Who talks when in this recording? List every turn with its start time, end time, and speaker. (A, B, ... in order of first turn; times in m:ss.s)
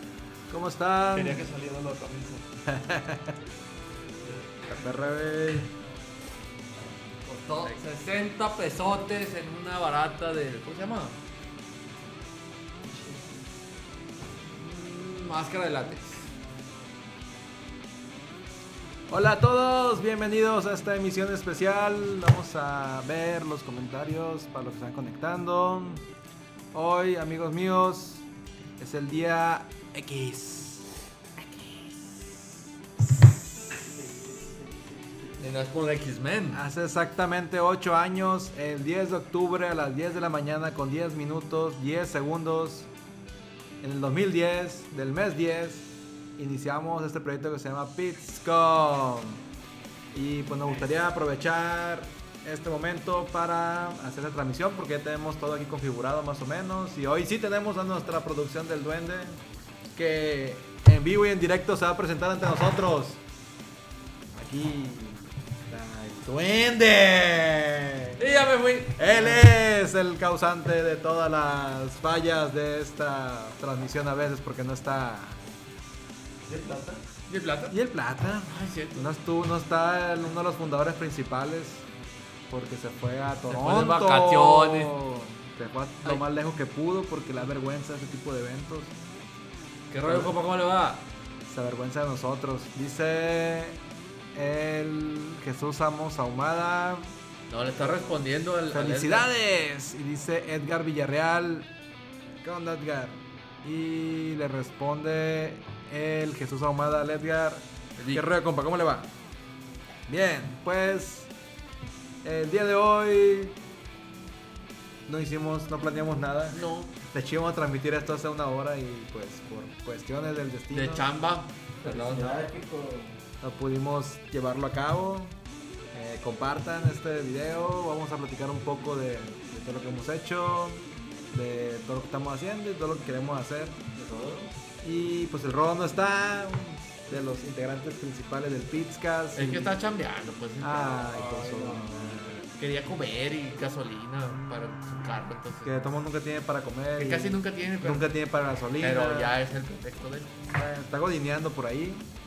0:00.5-0:01.5 A
0:01.1-0:02.4 B
0:02.7-0:03.4 A
0:04.7-0:05.7 A
0:07.2-0:11.2 B
0:12.8-0:13.4 C
0:14.6-0:16.3 B
0:19.1-0:26.0 A
0:26.7-0:28.2 A
0:28.8-0:30.9 A
0:33.8-0:35.6 C
0:35.4-0:36.6 B
0:36.5-0:42.9 A
0:43.8-0:49.4 A
0:50.1-0:59.4 A
0:59.9-1:03.2 A
1:04.3-1:08.4 A
1:08.2-1:09.3 B
1:09.0-1:15.4 A
1:16.5-1:17.0 C
1:17.3-1:17.8 B
1:17.7-1:21.8 A
1:18.4-1:19.1 B
1:22.5-1:28.9 A
1:23.5-1:25.0 B
1:29.9-1:31.1 B
1:30.0-1:30.3 A
1:31.4-1:33.8 A
1:34.3-1:37.1 A
1:37.5-1:39.3 B
1:37.8-1:38.2 C
1:38.7-1:41.7 A
1:42.4-1:49.1 A
1:48.0-1:48.2 B
1:50.1-1:51.3 A
1:52.2-1:53.6 A
1:55.1-1:56.6 A
1:56.5-1:56.9 B
1:57.1-2:01.1 A
2:00.7-2:02.4 B
2:01.8-2:03.2 C
2:03.4-2:05.4 A
2:05.9-2:13.8 A
2:13.9-2:14.5 C
2:14.8-2:19.8 A
2:19.3-2:21.2 B
2:20.6-2:22.5 A
2:21.0-2:22.5 C
2:22.5-2:25.9 B
2:24.3-2:29.4 A
2:27.0-2:28.1 B
2:28.8-2:30.4 B
2:30.4-2:32.1 A